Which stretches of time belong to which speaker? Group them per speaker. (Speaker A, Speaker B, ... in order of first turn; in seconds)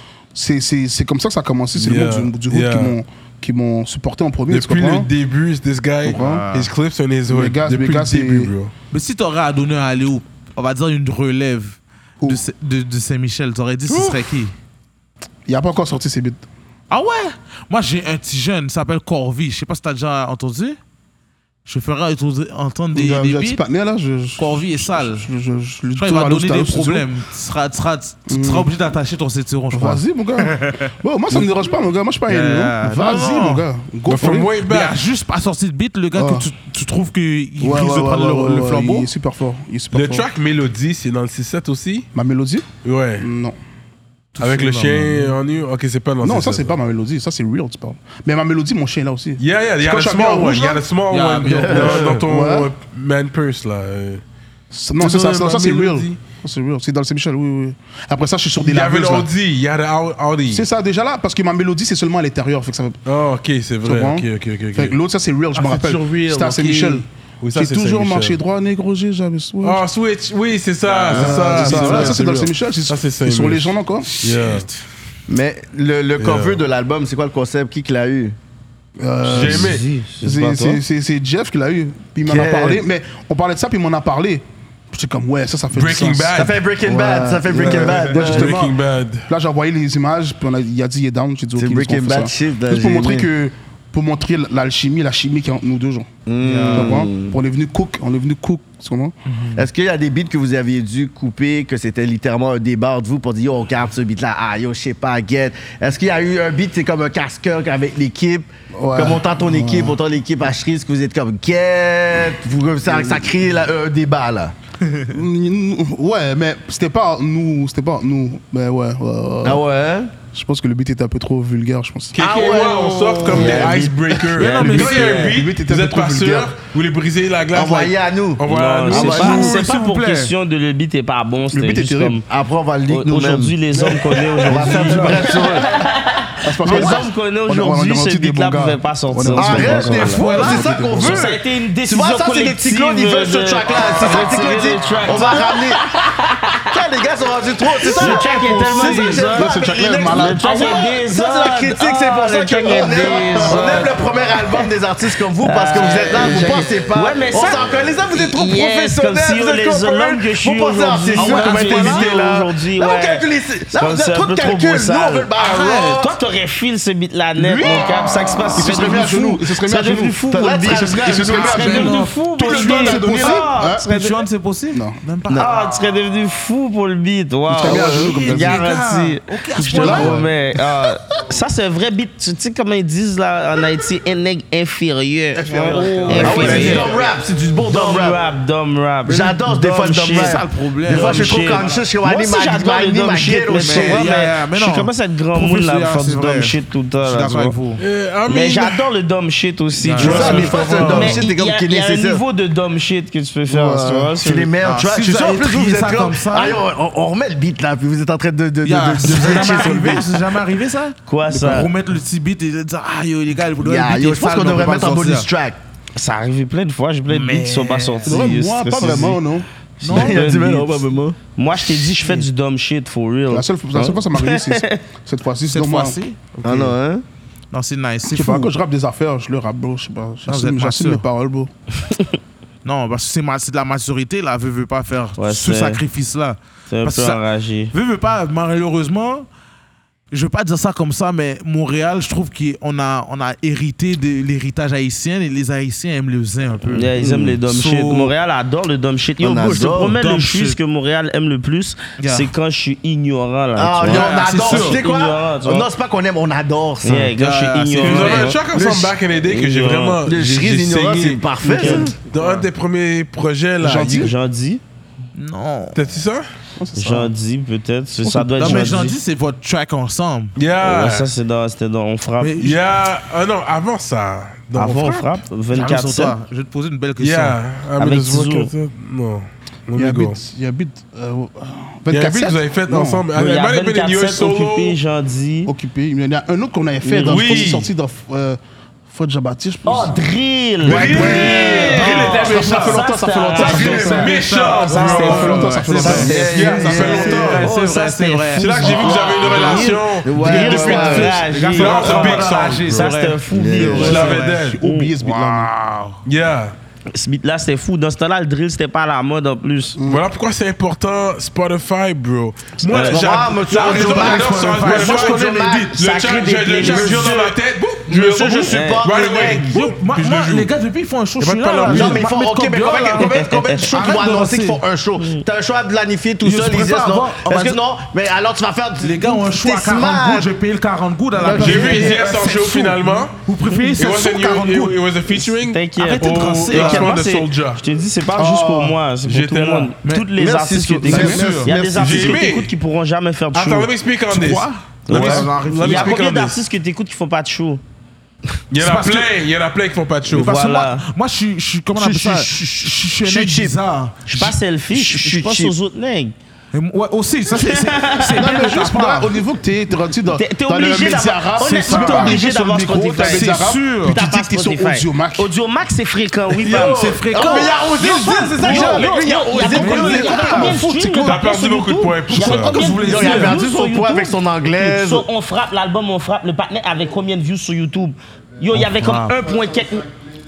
Speaker A: 0.3-5.1, 6.0-6.5, 7.3-8.5, 13.9-14.2, 15.5-16.4, 22.9-27.1, 28.3-28.7, 29.7-34.5, 36.1-36.5, 37.6-40.3, 42.1-42.7, 43.2-43.5, 46.2-50.8, 51.7-52.7, 54.7-59.3, 60.5-63.0, 63.8-69.8, 71.1-74.1, 79.0-88.8, 89.3-96.1, 96.7-99.1, 108.7-110.0, 112.8-113.3, 115.1-119.6, 120.3-122.2, 124.1-126.5, 129.1-129.6, 131.5-132.2, 134.4-135.3, 136.4-141.3, 147.9-150.7, 152.8-153.8, 168.6-173.9, 174.7-175.0, 177.5-178.6, 179.6-180.6, 185.3-187.1, 203.5-204.2, 218.1-219.4, 223.3-226.0, 228.1-231.5, 263.6-264.1, 266.6-267.1, 268.1-268.8, 279.8-283.1, 285.4-290.0, 290.6-294.2, 294.8-296.3, 303.5-305.5, 309.8-310.0, 338.2-338.8, 340.9-341.2, 358.1-365.3, 369.6-371.0
Speaker B: 1.8-3.0, 4.5-8.7, 34.1-35.0, 39.9-42.1, 42.8-43.3, 44.4-46.7, 49.4-54.2, 55.0-56.2, 58.6-60.6, 63.0-65.0, 65.5-68.4, 69.6-74.7, 76.2-76.6, 79.2-79.8, 85.7-86.6, 87.9-89.3, 122.1-129.1, 197.8-198.9, 200.0-201.2, 209.1-209.6, 257.8-264.1, 265.7-266.3, 270.4-271.1, 272.4-275.2, 277.0-280.2, 281.9-284.8, 286.9-287.7, 290.6-297.5, 298.4-302.9, 303.8-304.6, 306.1-306.6, 309.8-320.5, 321.2-322.0, 331.3-333.2, 333.8-337.6, 339.0-339.7, 341.7-342.5, 343.3-346.4, 348.5-350.3, 371.0-372.7
Speaker C: 6.0-6.7, 8.9-14.5, 16.9-20.8, 21.6-23.6, 24.4-25.3, 26.0-31.6, 32.3-33.7, 34.6-39.1, 44.4-45.4, 51.1-52.2, 70.8-72.3, 74.0-74.7, 87.6-88.0, 96.4-97.0, 99.3-99.6, 124.3-125.4, 129.1-130.3, 140.0-140.7, 155.7-156.6, 161.1-162.1, 165.3-166.1, 167.4-168.9, 170.6-175.5, 177.6-180.2, 186.1-187.0, 189.5-191.9, 193.6-197.8, 199.8-200.4, 204.6-206.6, 208.6-215.3, 217.1-218.3, 219.8-220.3, 222.0-222.3, 225.5-226.7, 227.5-228.5, 230.3-231.0, 232.6-237.2, 237.7-239.3, 240.1-248.1, 249.9-250.6, 252.0-252.3, 253.8-254.8, 257.1-258.3, 262.1-262.4, 265.1-265.8, 268.4-270.3, 272.2-272.6, 275.5-277.4, 290.7-292.7, 293.3-303.2, 303.8-304.4, 305.0-306.0, 313.5-315.7, 319.4-324.6, 326.2-327.6, 328.8-334.8, 335.8-336.9, 339.8-340.1, 340.8-341.5, 344.1-346.0, 348.6-349.1, 350.1-354.3, 356.5-359.2, 361.4-362.3, 362.9-364.0, 366.4-371.1, 372.1-373.4, 378.5-379.2
Speaker D: 51.7-52.1, 75.3-78.3, 82.3-82.8, 86.3-88.6, 91.5-93.3, 96.3-97.3, 99.5-114.5, 119.4-120.1, 122.2-124.0, 127.5-129.6, 132.3-133.6, 134.4-135.8, 136.7-137.0, 139.3-145.8, 146.7-166.2, 170.3-171.8, 175.3-175.6, 186.2-188.2, 189.1-194.0, 200.0-202.2, 204.2-210.2, 213.6-215.6, 219.9-221.2, 226.4-227.0, 247.0-247.4, 249.2-249.9, 253.6-257.1, 258.5-258.9, 260.1-261.9, 295.8-297.5, 299.1-301.2, 303.3-304.1, 312.8-315.9, 316.6-319.6, 321.6-330.3, 331.2-331.8, 340.2-342.3, 351.8-353.6, 354.2-355.6, 366.5-370.6, 372.8-375.1
Speaker E: 79.3-80.8, 123.3-123.8, 128.4-132.2, 132.9-140.4, 140.9-146.7, 147.8-154.7, 155.4-165.3, 166.0-174.1, 175.3-186.9, 187.7-197.6, 198.3-204.5, 211.1-211.7, 215.9-219.2, 219.8-220.8, 221.3-224.8, 235.2-235.8, 236.7-237.7, 246.7-255.7, 256.8-258.4, 259.3-260.0, 261.4-261.9, 263.8-264.6, 266.8-269.0, 270.6-272.4, 274.5-276.1, 277.8-278.5, 283.1-285.5, 286.8-287.4, 289.6-304.9, 306.9-309.8, 312.6-313.0, 315.8-317.1, 318.5-318.9, 323.0-323.7, 325.0-325.2, 333.5-333.8, 335.4-343.7, 344.9-347.6, 350.1-350.8, 354.1-356.1, 357.3-358.3, 360.1-367.5, 368.4-379.9